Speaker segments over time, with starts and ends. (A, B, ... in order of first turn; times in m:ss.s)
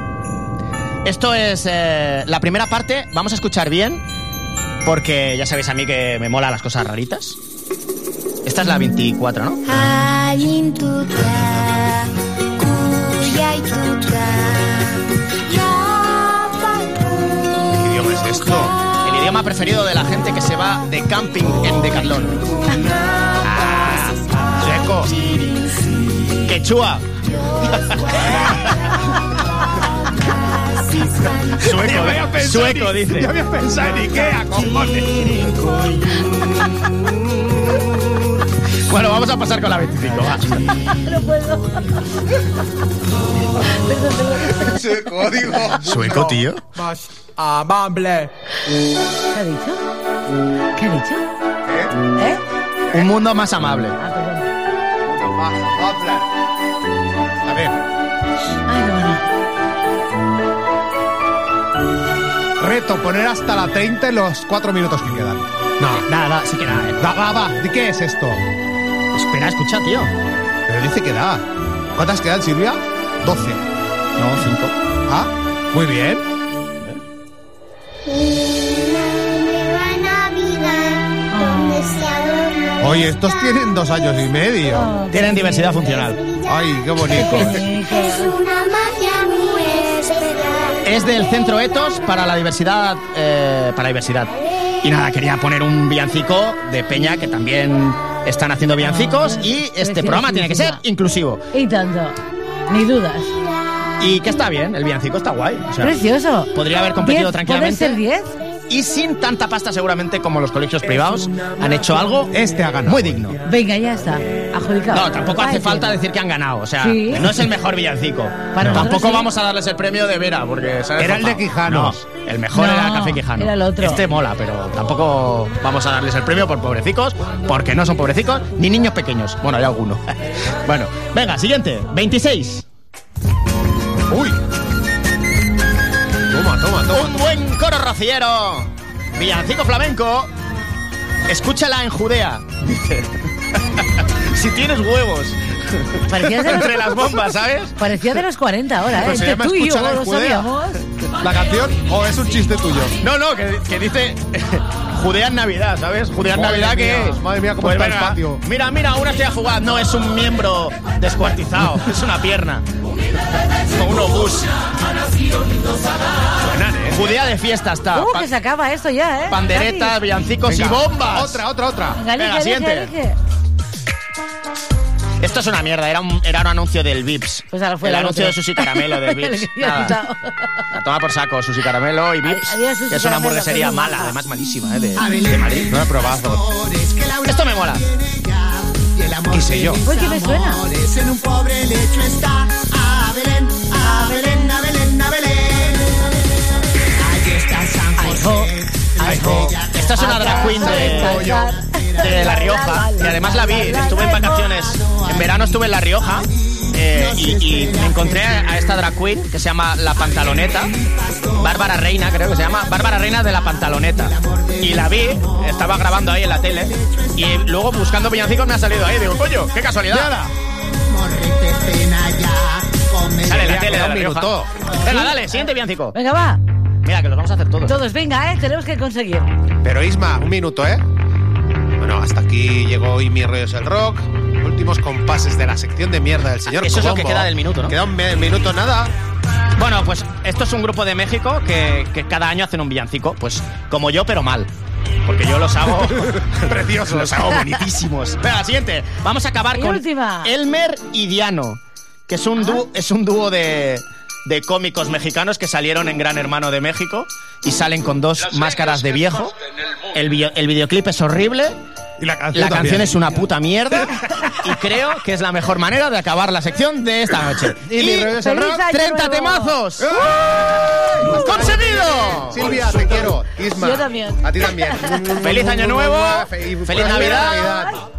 0:01.0-0:04.0 A
0:04.8-0:07.4 A
0:08.4-0:09.6 A
0:09.6-0:17.1 B
0:17.7-0:18.7 C
0:19.0-0:22.4 A
0:22.7-0:25.9 B
0:23.4-0:24.2 A
0:24.6-0:25.1 C
0:26.4-0:27.1 A
0:27.4-0:28.8 B
0:27.7-0:28.3 A
0:28.2-0:28.6 C
0:30.3-0:31.5 B
0:31.6-0:33.3 A
0:31.6-0:35.6 C
0:38.9-0:40.7 A
0:40.8-0:41.9 D
0:43.7-0:45.0 D
0:44.6-0:48.3 C
0:45.8-0:46.6 A
0:49.3-0:49.8 D
0:50.8-0:51.2 D
0:51.7-0:52.0 C
0:52.2-0:52.4 D
0:52.9-0:54.0 A
0:54.0-0:54.5 D
0:55.1-0:56.2 C
0:57.5-0:57.8 C
0:58.7-0:59.2 D
1:02.6-1:06.0 C
1:05.9-1:07.0 A
1:07.0-1:08.4 C
1:09.1-1:10.1 A
1:10.7-1:11.4 C
1:12.0-1:13.6 C
1:14.2-1:14.8 A
1:15.1-1:16.2 C
1:18.1-1:23.2 B
1:21.3-1:22.0 D
1:22.8-1:24.9 C
1:24.8-1:25.7 D
1:25.1-1:26.2 A
1:25.9-1:26.5 B
1:26.5-1:27.6 C
1:27.1-1:28.3 D
1:27.2-1:30.8 B
1:30.8-1:41.4 A
1:38.8-1:40.8 D
1:41.5-1:42.2 D
1:42.7-1:43.3 D
1:44.0-1:46.0 A
1:45.8-1:48.4 D
1:46.5-1:48.0 A
1:48.7-1:52.3 A
1:52.3-1:53.3 C
1:52.8-1:53.4 A
1:53.5-1:55.9 D
1:54.9-2:10.1 A
1:56.8-1:57.5 D
1:58.6-1:59.3 D
1:58.6-1:58.9 C
2:01.0-2:02.0 C
2:02.5-2:04.0 D
2:10.6-2:12.7 A
2:14.1-2:14.4 C
2:16.3-2:17.3 C
2:16.9-2:20.3 A
2:21.3-2:23.1 A
2:23.8-2:27.8 A
2:26.1-2:27.1 D
2:27.8-2:30.8 D
2:28.9-2:30.5 C
2:31.2-2:33.0 C
2:33.0-2:42.7 A
2:36.2-2:38.4 C
2:43.7-2:44.5 A
2:46.4-2:47.0 C
2:46.9-2:48.3 A
2:47.9-2:50.0 D
2:49.3-2:51.4 A
2:50.5-2:52.0 C
2:52.0-2:53.2 D
2:52.2-2:52.9 A
2:55.2-3:00.0 A
2:57.5-3:00.4 D
3:00.8-3:05.7 A
3:02.2-3:04.2 D
3:05.0-3:16.0 E
3:05.7-3:06.4 C
3:07.2-3:07.8 A
3:09.3-3:09.8 C
3:09.8-3:10.7 D
3:17.0-3:20.0 E
3:18.0-3:24.6 D
3:19.0-3:19.6 C
3:19.7-3:21.3 A
3:20.3-3:21.5 C
3:21.3-3:22.4 E
3:22.0-3:30.7 A
3:24.8-3:25.3 E
3:26.8-3:28.4 E
3:30.2-3:31.6 E
3:31.4-3:40.1 A
3:34.1-3:35.6 E
3:36.5-3:37.4 E
3:39.9-3:40.3 C
3:40.9-3:43.6 E
3:43.2-3:46.0 A
3:43.3-3:44.5 C
3:45.9-3:46.4 D
3:46.8-3:47.8 A
3:47.7-3:49.3 D
3:49.6-3:50.8 C
3:51.8-3:58.9 C
3:56.5-3:57.8 A
3:59.6-4:04.5 A
4:05.0-4:19.4 A
4:06.3-4:07.4 C
4:09.6-4:10.3 D
4:19.9-4:21.6 A
4:22.0-4:23.2 C
4:22.3-4:27.9 A
4:27.7-4:29.5 D
4:27.7-4:28.6 C
4:28.6-4:29.9 A
4:29.8-4:37.8 C
4:31.1-4:32.6 A
4:33.5-4:35.0 D
4:35.2-4:37.5 A
4:37.2-4:37.8 D